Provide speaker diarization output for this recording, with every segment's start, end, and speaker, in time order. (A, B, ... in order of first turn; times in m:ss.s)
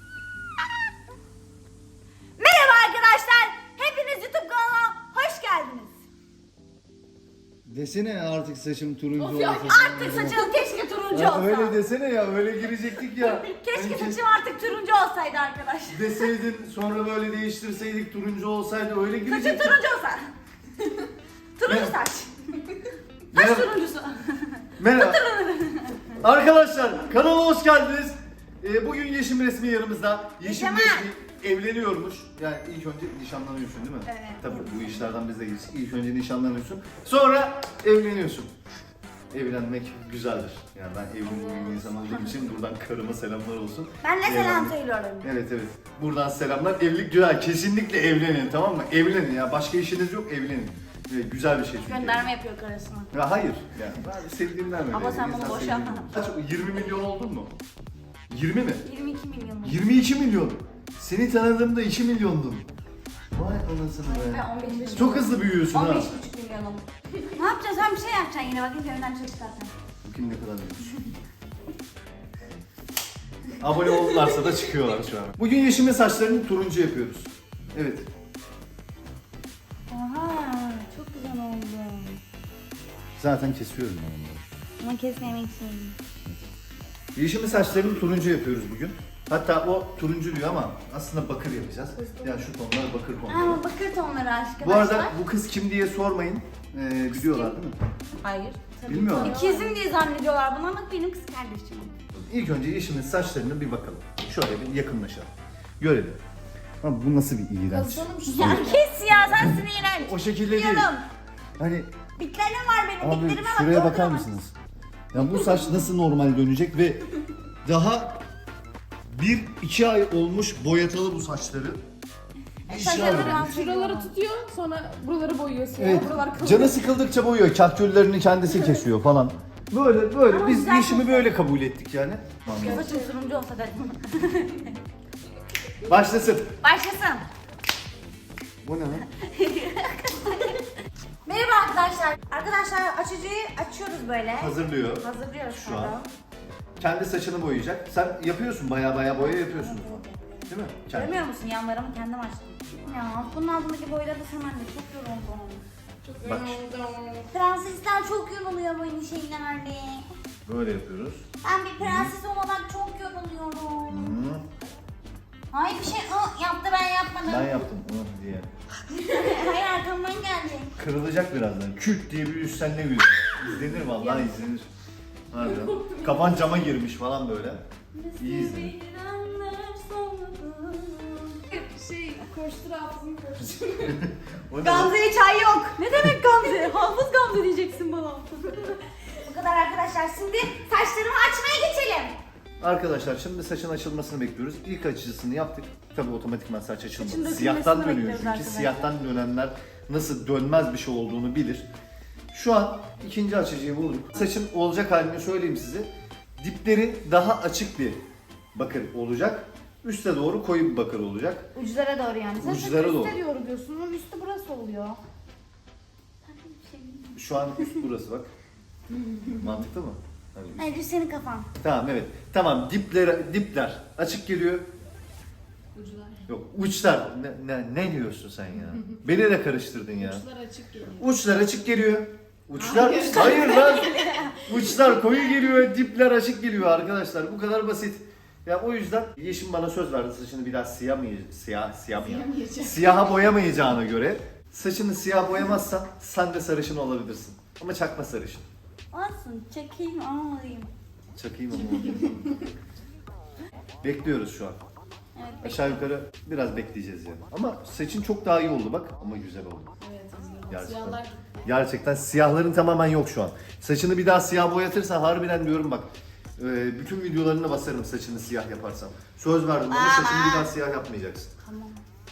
0:02.4-0:05.9 A
0:07.6-0:10.4 B
0:09.2-0:10.3 C
0:09.6-0:11.8 A
0:11.1-0:14.2 B
0:13.2-0:16.2 A
0:15.9-0:19.8 B
0:19.2-0:20.3 A
0:21.6-0:22.3 A
0:21.6-0:22.0 B
0:23.3-0:23.7 B
0:23.3-0:26.1 A
0:24.8-0:25.2 B
0:26.2-0:38.5 B
0:30.4-0:31.1 A
0:34.0-0:34.9 A
0:39.3-0:52.3 B
0:42.0-0:42.3 A
0:44.0-0:45.3 A
0:51.8-0:53.1 A
0:53.1-0:57.5 B
0:54.9-0:56.2 A
0:58.3-0:58.8 B
0:58.8-0:59.8 A
0:59.6-1:02.7 B
1:03.3-1:06.1 B
1:04.0-1:06.8 A
1:07.4-1:09.7 A
1:10.0-1:10.9 B
1:13.6-1:18.1 B
1:19.9-1:22.2 A
1:23.2-1:24.4 B
1:24.8-1:26.0 A
1:27.2-1:33.6 B
1:33.3-1:35.2 A
1:34.6-1:37.8 B
1:37.1-1:37.6 A
1:38.2-1:42.0 A
1:38.8-1:39.4 B
1:39.1-1:39.8 C
1:42.3-1:46.2 B
1:46.8-1:50.9 B
1:47.7-1:49.0 C
1:48.2-1:51.0 A
1:51.6-1:51.9 B
1:52.2-1:54.3 A
1:53.0-1:54.5 B
1:55.1-1:57.0 B
1:57.6-1:58.2 B
1:59.1-2:01.8 B
2:02.6-2:04.1 A
2:02.7-2:03.5 B
2:02.7-2:06.8 C
2:05.8-2:12.8 B
2:10.3-2:11.3 A
2:12.6-2:13.2 C
2:12.6-2:14.7 A
2:15.8-2:16.5 B
2:16.6-2:17.2 A
2:18.6-2:19.0 B
2:19.2-2:20.6 A
2:21.2-2:26.1 A
2:24.4-2:26.0 B
2:26.8-2:31.2 B
2:29.0-2:35.6 A
2:36.0-2:37.3 C
2:36.2-2:36.6 B
2:37.3-2:40.0 A
2:40.4-2:41.2 B
2:41.4-2:44.2 A
2:41.8-2:42.1 B
2:43.9-2:44.4 B
2:45.5-2:47.6 A
2:47.2-2:48.5 B
2:48.9-2:50.7 A
2:50.8-2:54.7 B
2:53.8-2:54.3 C
2:55.3-2:57.6 B
2:55.6-2:56.2 C
2:57.9-3:01.4 A
2:58.2-2:58.7 B
3:01.5-3:04.0 C
3:03.8-3:05.0 B
3:04.6-3:12.2 A
3:12.6-3:21.7 B
3:17.0-3:18.9 A
3:22.3-3:28.0 B
3:28.5-3:31.5 B
3:31.5-3:35.0 A
3:32.4-3:33.2 B
3:36.2-3:37.8 A
3:37.1-3:38.3 B
3:39.4-3:40.7 B
3:40.6-3:41.5 A
3:41.6-3:44.7 B
3:45.7-3:46.2 C
3:46.3-3:50.2 B
3:50.0-3:51.0 C
3:51.0-3:53.9 B
3:52.6-3:53.8 C
3:53.1-3:55.1 A
3:54.4-4:08.5 B
4:02.0-4:03.0 C
4:08.9-4:10.7 A
4:11.1-4:12.3 B
4:11.7-4:12.4 C
4:13.8-4:14.6 B
4:15.1-4:15.8 A
4:15.4-4:19.7 B
4:19.8-4:21.3 C
4:20.5-4:31.3 B
4:29.7-4:30.5 A
4:31.4-4:31.8 A